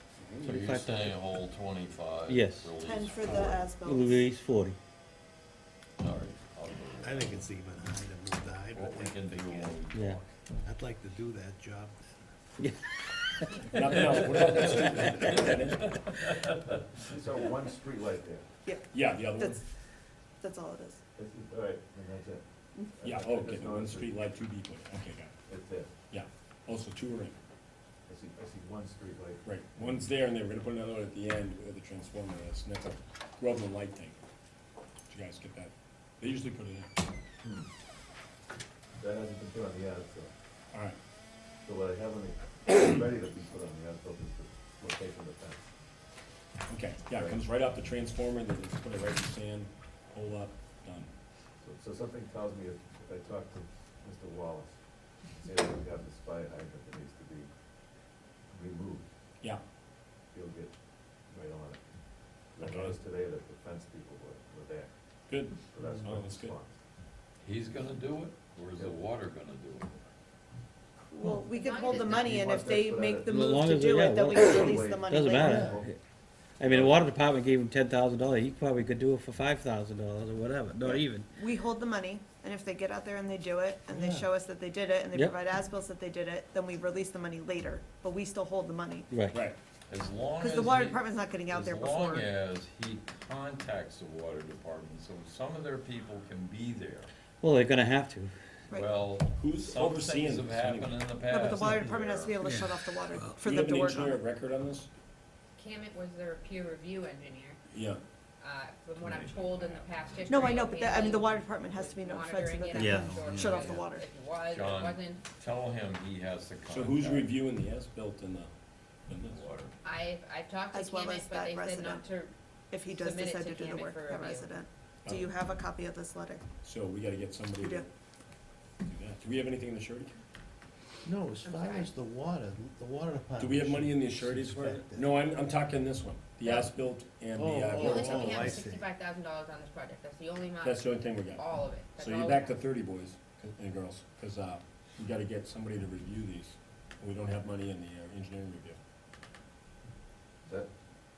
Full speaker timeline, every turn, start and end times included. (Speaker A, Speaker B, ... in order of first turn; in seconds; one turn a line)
Speaker A: 0.2-0.7
Speaker B: 0.4-1.1
Speaker C: 0.4-3.6
Speaker B: 2.3-2.7
Speaker D: 2.8-4.2
Speaker B: 3.3-4.8
Speaker C: 6.0-7.5
Speaker E: 7.0-9.9
Speaker C: 8.7-10.2
Speaker B: 9.9-10.2
Speaker E: 10.6-12.3
Speaker B: 12.6-13.7
Speaker A: 13.7-15.9
Speaker E: 14.1-15.5
Speaker C: 15.1-16.5
Speaker F: 17.0-18.5
Speaker D: 18.6-19.6
Speaker A: 18.9-19.6
Speaker D: 20.4-21.0
Speaker F: 21.1-22.4
Speaker F: 23.0-24.2
Speaker A: 23.0-25.3
Speaker F: 25.4-25.9
Speaker A: 26.1-27.4
Speaker F: 28.1-30.0
Speaker A: 29.4-34.2
Speaker A: 35.1-37.0
Speaker F: 37.4-37.7
Speaker F: 39.0-40.3
Speaker A: 40.7-41.0
Speaker F: 41.6-45.6
Speaker A: 46.7-51.1
Speaker F: 47.1-47.4
Speaker F: 51.6-57.5
Speaker F: 58.5-59.0
Speaker F: 60.3-60.7
Speaker F: 61.3-61.8
Speaker F: 62.5-64.9
Speaker A: 62.6-63.0
Speaker A: 65.3-66.6
Speaker F: 65.7-66.7
Speaker E: 65.8-66.1
Speaker C: 67.4-70.0
Speaker D: 71.1-75.7
Speaker G: 71.5-72.2
Speaker F: 71.9-73.6
Speaker B: 73.2-76.0
Speaker F: 74.5-75.9
Speaker E: 75.4-75.8
Speaker B: 76.6-81.3
Speaker F: 76.6-77.0
Speaker D: 80.8-89.1
Speaker E: 83.9-84.3
Speaker B: 89.1-89.4
Speaker A: 89.3-89.6
Speaker C: 89.9-97.1
Speaker D: 90.4-92.3
Speaker B: 97.4-98.3
Speaker C: 98.7-102.4
Speaker A: 99.3-102.0
Speaker D: 101.2-104.2
Speaker B: 102.4-102.8
Speaker A: 103.1-104.9
Speaker G: 105.5-107.6
Speaker A: 107.7-108.0
Speaker G: 108.4-115.2
Speaker C: 109.0-110.8
Speaker D: 110.3-114.0
Speaker B: 112.7-113.7
Speaker C: 114.5-117.3
Speaker A: 116.7-118.5
Speaker A: 119.1-119.4
Speaker C: 119.2-119.7
Speaker G: 119.8-122.3
Speaker D: 120.7-122.0
Speaker D: 122.7-126.4
Speaker G: 122.9-124.5
Speaker A: 125.0-125.3
Speaker A: 126.6-127.9
Speaker D: 127.6-127.9
Speaker A: 128.8-130.2
Speaker E: 131.0-135.2
Speaker G: 131.4-131.9
Speaker A: 133.4-138.6
Speaker E: 137.3-138.9
Speaker G: 137.7-142.6
Speaker A: 140.6-141.4
Speaker A: 141.9-148.8